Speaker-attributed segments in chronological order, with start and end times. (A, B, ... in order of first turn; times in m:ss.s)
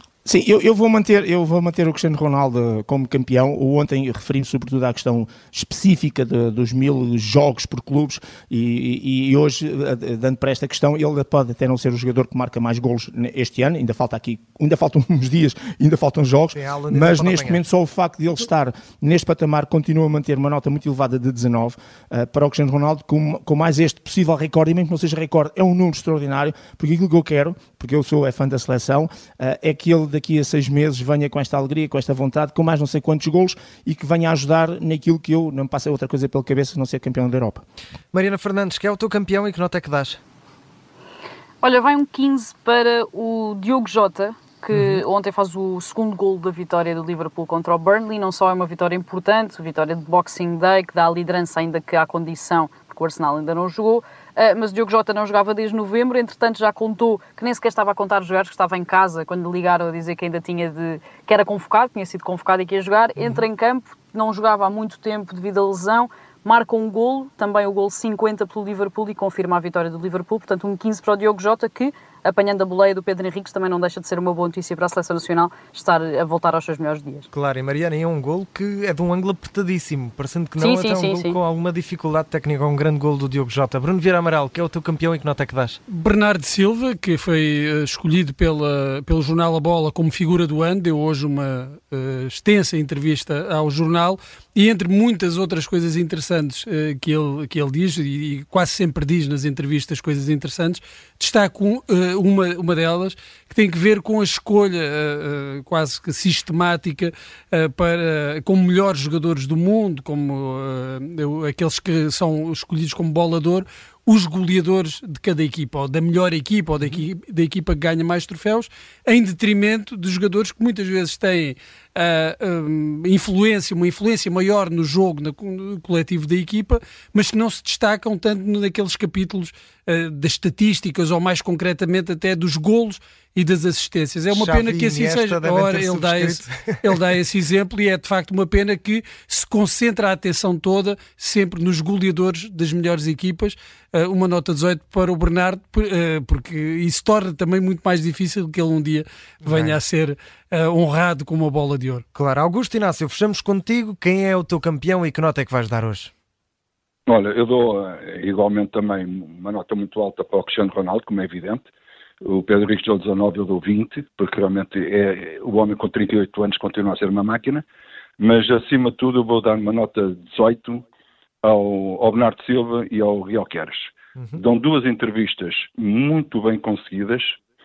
0:00.2-0:37.6 A
0:16.5-0:17.7 B
0:38.1-0:40.2 B
0:41.6-1:17.3 C
1:17.3-1:25.8 B
1:20.6-1:21.4 C
1:25.9-2:32.0 D
2:14.3-2:17.0 B
2:29.4-2:29.8 B
2:32.1-2:36.1 B
2:37.1-2:41.7 E
2:42.2-2:47.6 E
2:48.2-2:50.8 E
2:51.4-2:57.4 E